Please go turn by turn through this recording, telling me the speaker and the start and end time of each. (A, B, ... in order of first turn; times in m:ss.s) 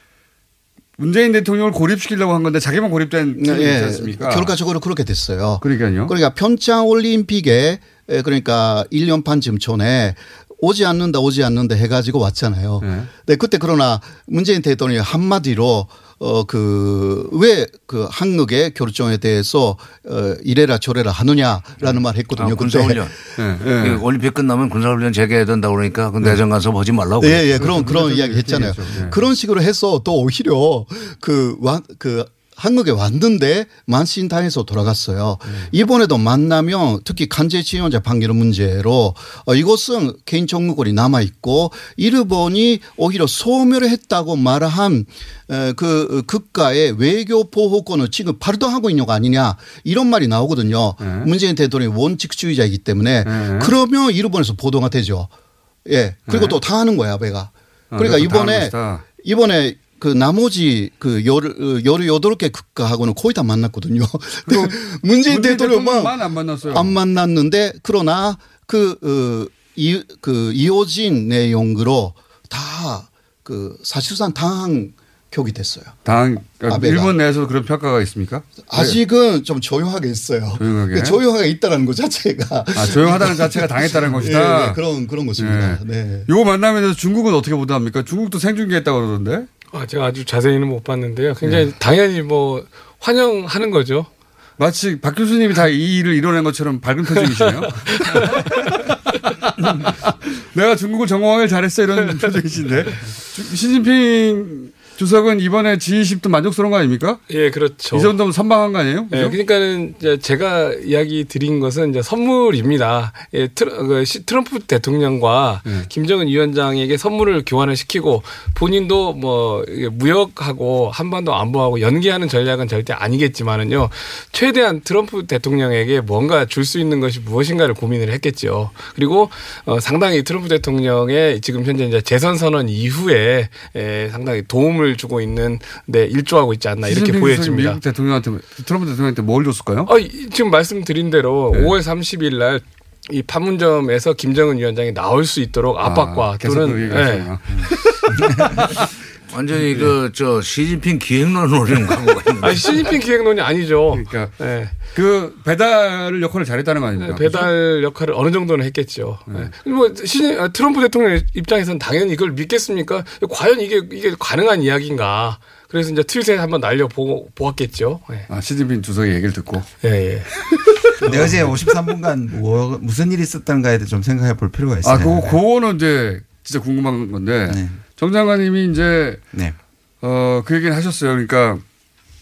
0:01.0-0:04.5 A
0:03.4-0:23.1 B
0:05.6-0:06.1 A
0:12.8-0:13.1 A
0:22.4-0:27.8 C
0:23.4-0:24.0 A
0:27.2-0:55.3 B
0:27.6-0:29.2 A
0:51.0-0:51.3 A
0:53.2-0:53.7 A
0:55.9-1:16.0 B
0:56.3-0:56.6 A
0:57.9-0:59.0 A
1:04.4-1:07.0 A
1:16.0-1:19.0 A
1:16.6-1:17.1 B
1:18.7-1:26.3 B
1:20.6-1:21.2 A
1:22.8-1:24.8 A
1:25.4-1:29.5 A
1:29.7-1:34.1 D
1:34.6-1:38.9 A
1:37.9-1:38.5 D
1:39.6-1:47.2 A
1:47.3-1:48.1 D
1:47.9-1:49.4 A
1:49.1-2:17.8 D
2:16.8-2:19.9 A
2:19.9-2:28.1 D
2:25.8-2:27.7 A
2:28.6-2:28.8 A
2:29.3-2:32.9 C
2:32.4-2:34.7 D
2:33.9-2:37.5 A
2:37.0-2:48.3 D
2:48.3-2:49.7 A
2:49.8-2:50.9 D
2:51.0-2:51.5 A
2:51.0-2:55.4 E
2:54.8-2:59.2 A
2:57.5-2:57.8 E
3:00.0-3:01.6 A